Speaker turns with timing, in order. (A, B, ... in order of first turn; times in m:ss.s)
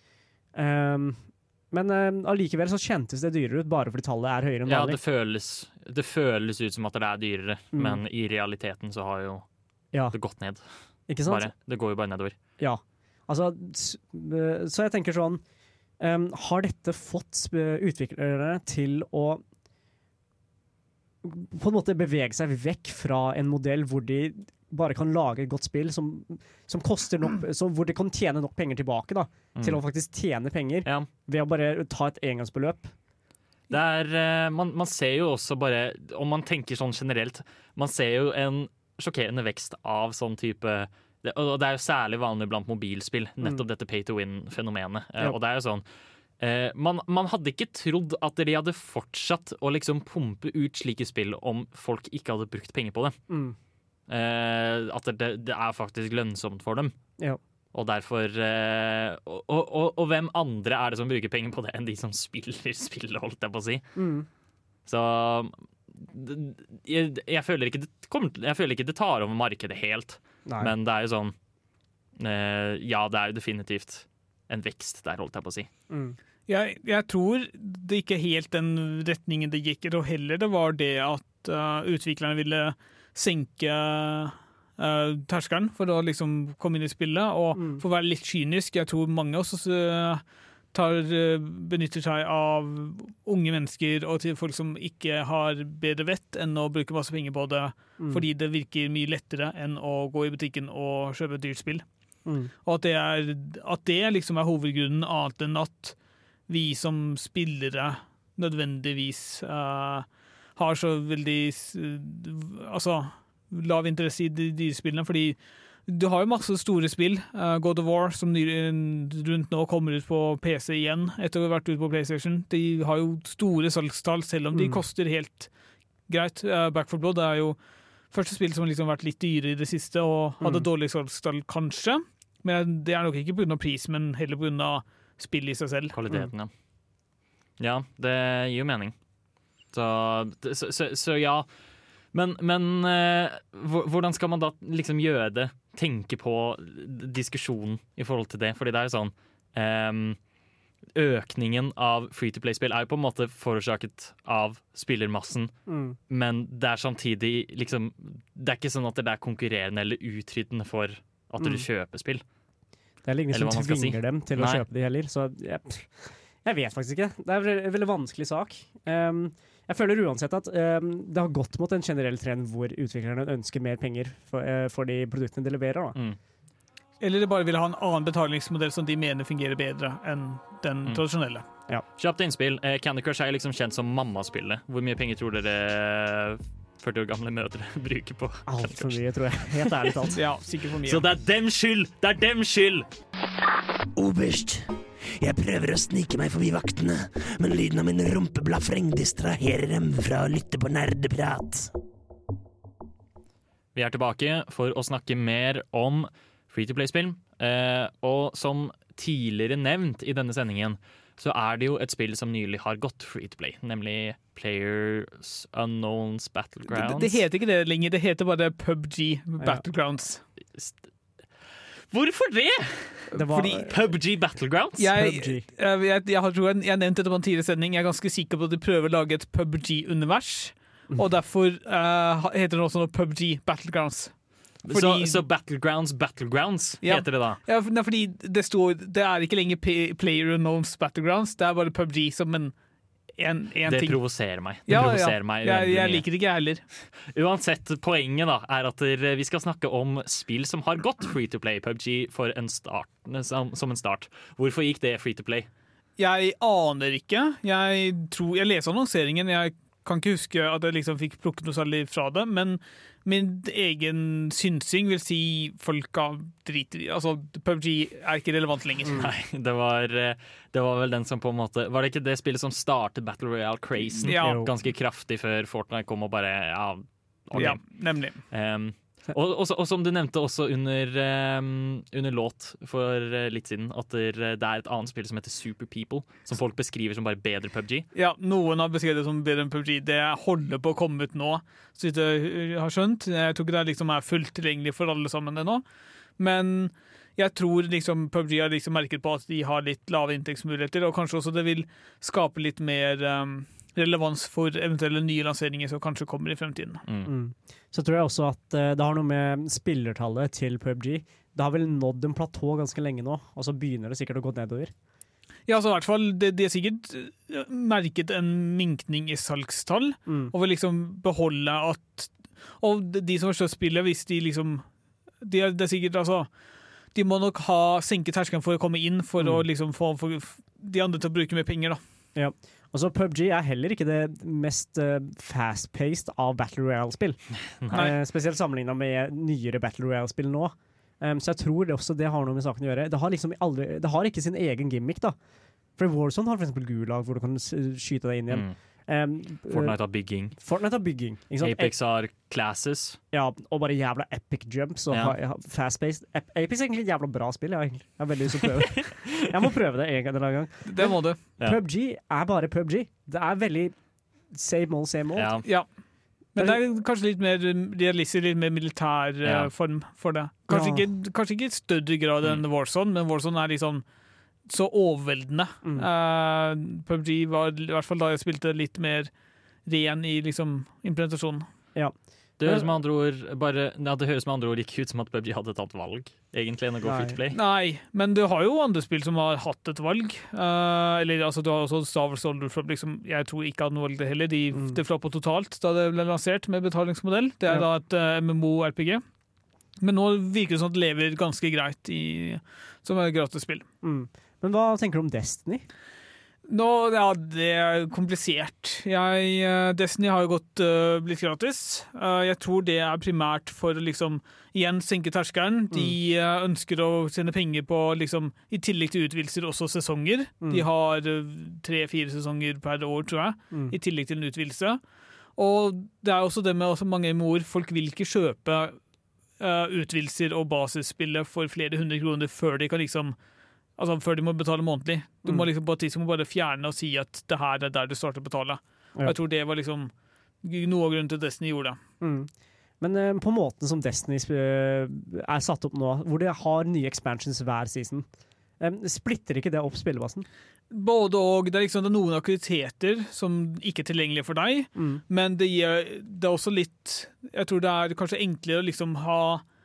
0:00.5-0:05.0 A
0:04.6-0:09.4 B
0:07.7-0:08.0 A
0:10.1-0:10.6 B
0:11.1-0:11.5 A
0:11.2-0:12.3 B
0:12.6-0:15.4 A
0:16.0-0:19.4 A
0:21.2-0:32.9 A
0:29.5-0:29.8 B
0:33.7-0:45.8 B
0:46.4-0:53.2 B
0:53.3-0:53.6 A
0:54.1-0:56.9 B
0:57.7-1:03.9 B
1:03.9-1:04.3 A
1:04.8-1:11.3 B
1:10.4-1:10.7 A
1:12.2-1:15.7 B
1:15.9-1:16.2 A
1:16.5-1:30.2 C
1:27.5-1:27.8 A
1:30.7-1:41.8 C
1:42.2-1:42.5 A
1:42.6-1:45.9 C
1:46.5-2:05.5 C
2:04.5-2:04.8 A
2:06.1-2:07.6 C
2:08.1-2:15.9 C
2:10.4-2:10.7 A
2:15.9-2:16.5 B
2:17.6-2:18.9 B
2:19.7-2:21.5 B
2:22.1-2:30.2 B
2:30.9-2:35.5 B
2:35.7-2:36.0 A
2:36.1-2:42.2 B
2:41.4-2:41.6 A
2:43.0-2:56.0 A
2:43.3-2:44.6 B
2:57.0-3:01.4 C
3:02.0-3:09.0 B
3:08.4-3:10.2 A
3:10.1-3:11.0 C
3:10.8-3:12.9 B
3:14.0-3:21.7 D
3:23.7-3:37.2 B
3:36.7-3:40.2 C
3:40.5-3:40.8 B
3:41.9-3:44.9 B
3:43.1-3:43.8 A
3:43.2-3:43.6 C
3:44.8-3:54.1 C
3:44.9-3:45.4 A
3:54.6-3:55.2 C
3:54.7-3:57.4 B
3:56.8-4:02.5 C
4:03.2-4:04.0 C
4:03.7-4:06.0 B
4:04.6-4:06.6 C
4:07.1-4:15.5 B
4:16.0-4:29.0 C
4:28.9-4:47.9 B
4:34.0-4:34.5 A
4:34.0-4:34.4 C
4:37.4-4:38.2 C
4:47.9-4:55.6 C
4:56.2-5:06.8 C
5:06.9-5:07.1 B
5:07.0-5:14.7 A
5:15.5-5:24.6 C
5:20.1-5:20.3 A
5:25.2-5:26.3 C
5:26.9-5:31.8 C
5:29.2-5:29.4 A
5:32.1-5:45.2 A
5:45.8-5:49.8 A
5:48.3-5:48.6 B
5:49.5-5:50.4 B
5:50.3-5:51.7 A
5:51.4-5:53.0 B
5:53.1-6:03.7 A
5:54.9-5:55.2 B
5:58.7-5:59.1 B
6:00.6-6:01.2 C
6:04.3-6:05.4 A
6:05.2-6:05.4 B
6:06.3-6:13.8 C
6:09.2-6:09.5 B
6:10.5-6:10.9 A
6:14.5-6:19.1 C
6:19.6-6:21.4 C
6:21.7-6:22.7 A
6:22.4-6:27.4 B
6:26.8-6:27.2 A
6:27.3-6:39.0 C
6:34.5-6:34.8 A
6:39.8-6:43.6 C
6:43.8-6:45.6 A
6:46.5-7:04.8 C
6:55.7-6:56.0 A
7:05.4-7:08.8 C
7:09.4-7:13.1 C
7:13.8-7:19.9 C
7:20.4-7:21.8 C
7:22.0-7:28.0 A
7:28.6-7:30.3 A
7:30.7-7:39.4 C
7:34.8-7:35.0 A